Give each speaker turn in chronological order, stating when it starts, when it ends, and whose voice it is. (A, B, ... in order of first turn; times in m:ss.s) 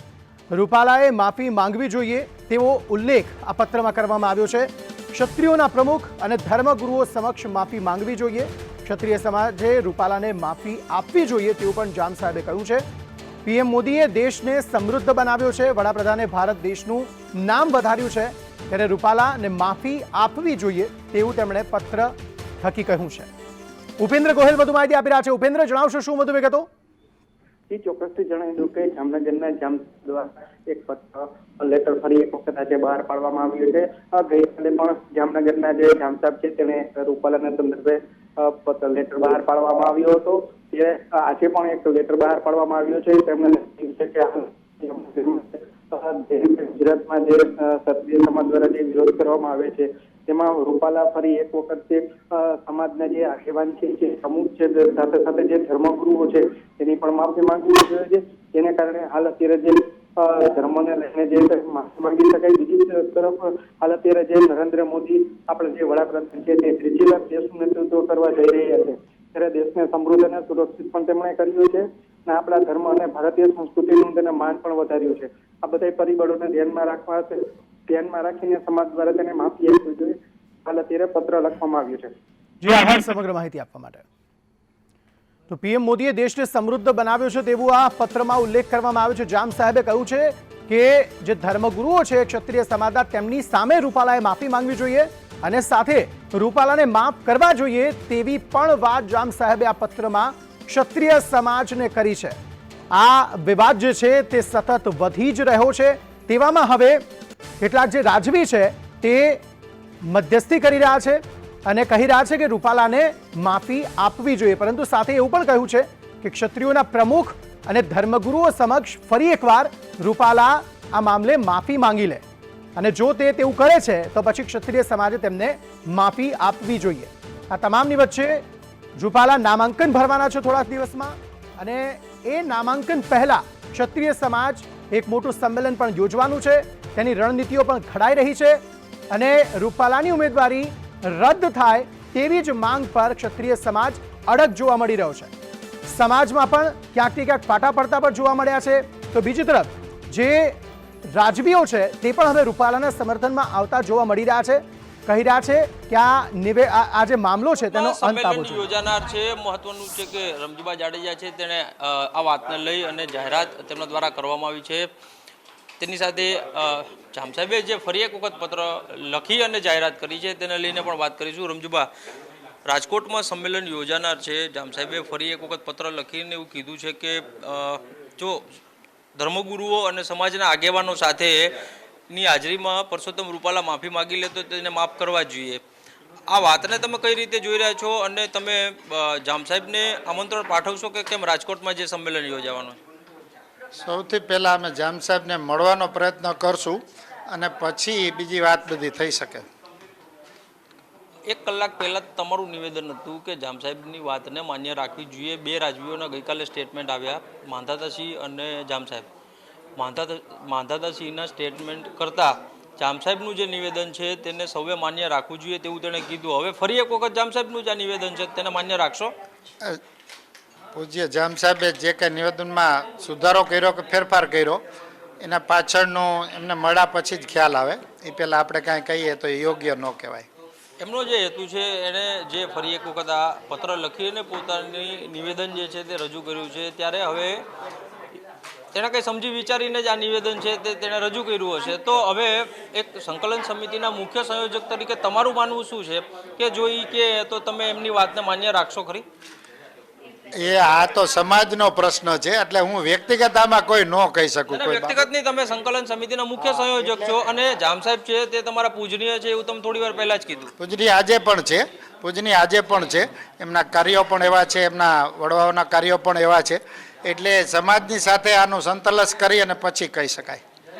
0:00.5-0:12.8 A
0:13.4-0:23.3 A
0:24.0-0:26.7 A
0:27.7-1:22.1 B
1:22.6-1:24.0 A
1:25.5-1:42.4 A
1:42.9-1:47.0 A
1:47.6-1:49.4 A
1:50.0-2:02.2 A
2:02.8-2:08.4 A
2:09.0-2:25.3 A
2:25.9-2:30.6 A
2:31.1-2:38.6 A
2:37.7-2:44.9 C
2:45.8-2:51.9 C
2:52.6-2:58.4 C
2:59.2-3:01.5 C
3:02.1-3:05.6 C
3:06.3-3:12.8 C
3:13.8-3:19.4 D
3:21.3-3:29.1 C
3:29.8-3:39.1 C
3:40.7-3:44.6 D
3:45.2-3:50.2 D
3:50.8-3:57.4 C
3:58.7-4:09.0 C
4:10.3-4:15.0 D
4:14.5-4:20.5 C
4:16.6-4:16.9 D
4:20.6-4:30.4 D